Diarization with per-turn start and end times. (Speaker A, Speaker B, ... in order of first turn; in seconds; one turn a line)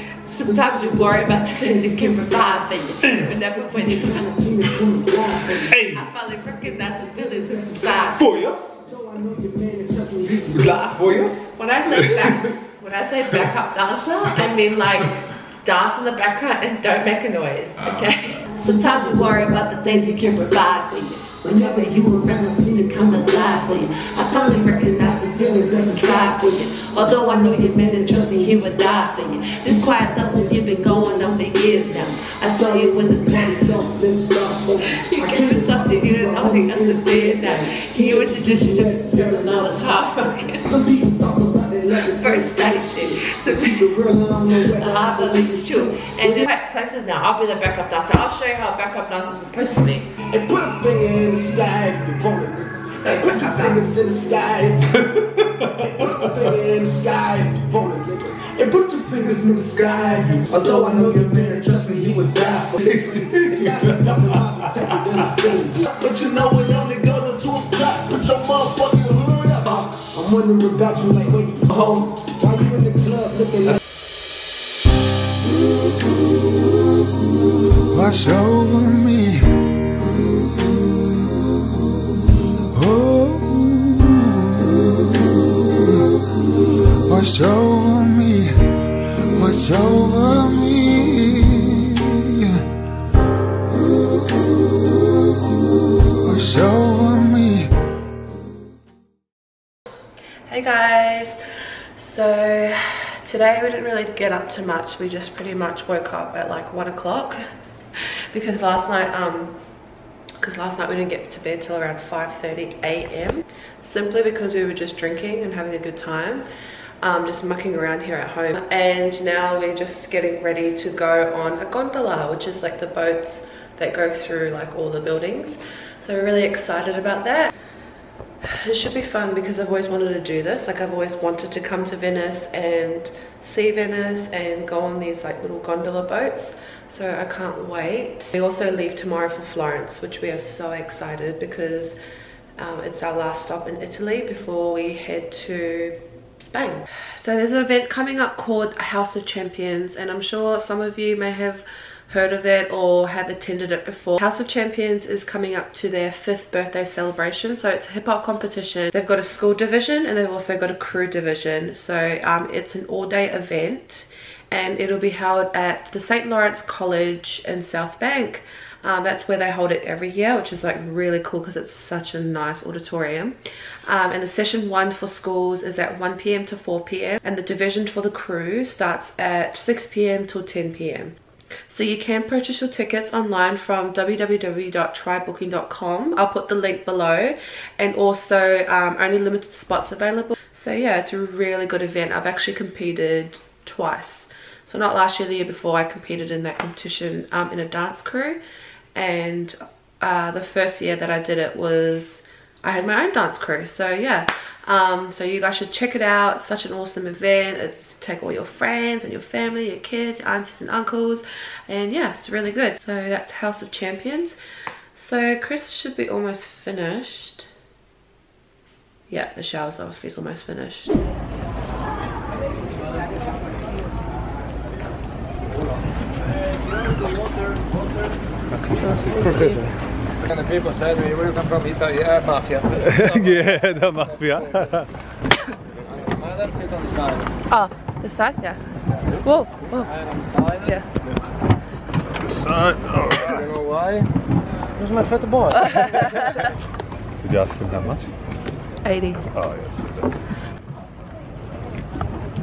Speaker A: 0.3-4.4
Speaker B: 0.4-2.6
Speaker C: 3.0-3.3
Speaker B: 3.6-5.8
Speaker C: 5.7-6.1
Speaker A: 5.9-8.2
Speaker B: 7.2-8.2
Speaker C: 8.2-8.6
Speaker B: 8.7-10.8
Speaker C: 10.5-11.4
Speaker A: 11.6-33.7
Speaker C: 17.8-18.1
Speaker B: 21.4-26.6
Speaker B: 27.4-28.5
Speaker B: 30.1-31.4
Speaker B: 32.3-39.9
Speaker A: 34.8-40.7
Speaker B: 40.6-46.5
Speaker A: 42.0-50.1
Speaker B: 50.3-55.0
Speaker A: 53.0-53.9
Speaker C: 55.0-56.3
Speaker B: 55.7-73.8
Speaker C: 62.8-64.7
Speaker D: 77.9-80.8
Speaker D: 82.7-86.0
Speaker D: 87.1-92.6
Speaker D: 93.9-94.5
Speaker D: 96.2-97.7
Speaker A: 100.5-101.4
Speaker A: 102.0-107.4
Speaker A: 108.0-109.6
Speaker A: 110.4-116.5
Speaker A: 117.0-127.5
Speaker A: 128.4-142.0
Speaker A: 142.6-181.2
Speaker A: 181.7-198.4
Speaker A: 198.9-214.4
Speaker A: 214.9-217.5
Speaker A: 219.1-221.2
Speaker C: 228.5-229.6
Speaker A: 228.8-229.7
Speaker E: 229.2-229.7
Speaker E: 230.2-234.7
Speaker C: 232.8-234.9
Speaker E: 235.9-237.3
Speaker A: 237.5-238.6
Speaker A: 239.2-239.9
Speaker E: 239.8-240.8
Speaker C: 241.9-243.5
Speaker E: 243.2-244.1
Speaker E: 244.8-246.3
Speaker A: 245.6-246.2
Speaker C: 247.2-248.1
Speaker A: 248.8-249.3
Speaker C: 249.3-250.2